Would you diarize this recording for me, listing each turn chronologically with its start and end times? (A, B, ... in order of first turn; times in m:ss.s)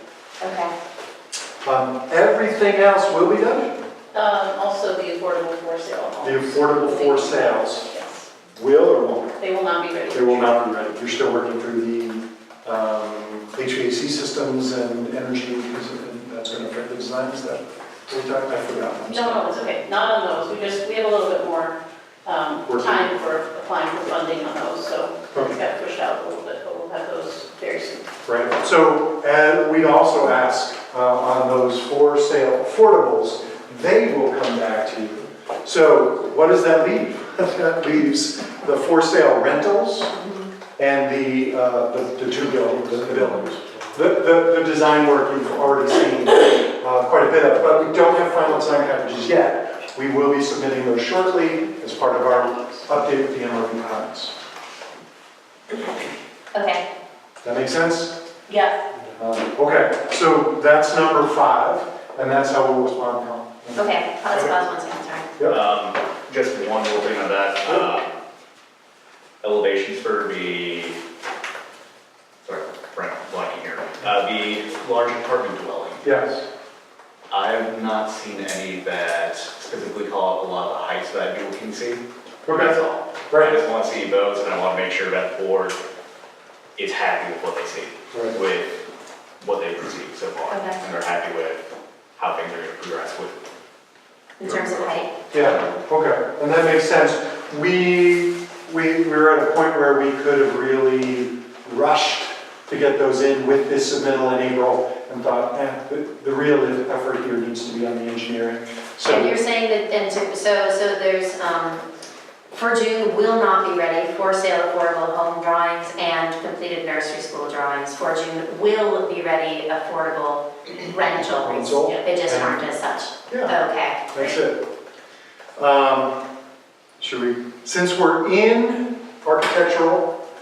0:00.4-0:00.7 A
0:01.6-0:03.8 B
0:04.1-0:08.2 C
0:06.2-0:07.8 B
0:08.5-0:09.3 B
0:09.4-0:10.6 C
0:10.1-0:19.5 B
0:19.1-0:28.1 C
0:22.7-0:23.1 B
0:28.2-0:40.2 B
0:40.8-0:54.3 B
0:56.5-0:56.8 A
0:57.4-0:58.2 B
0:58.5-0:58.8 C
0:59.1-1:04.5 B
1:03.8-1:05.3 A
1:05.5-1:08.1 D
1:09.4-1:11.0 D
1:12.4-1:16.1 D
1:16.0-1:16.4 B
1:17.3-1:25.8 D
1:22.4-1:23.6 B
1:26.8-1:28.7 D
1:28.1-1:28.4 B
1:29.4-1:31.6 D
1:30.5-1:30.8 A
1:32.2-1:33.4 D
1:34.4-1:35.7 A
1:34.5-1:34.9 D
1:35.3-1:49.3 B
1:49.1-1:51.8 A
1:52.5-2:04.4 A
2:01.4-2:02.6 B
2:03.3-2:03.5 B
2:04.1-2:04.6 B
2:05.6-2:06.2 B
2:07.0-2:10.2 B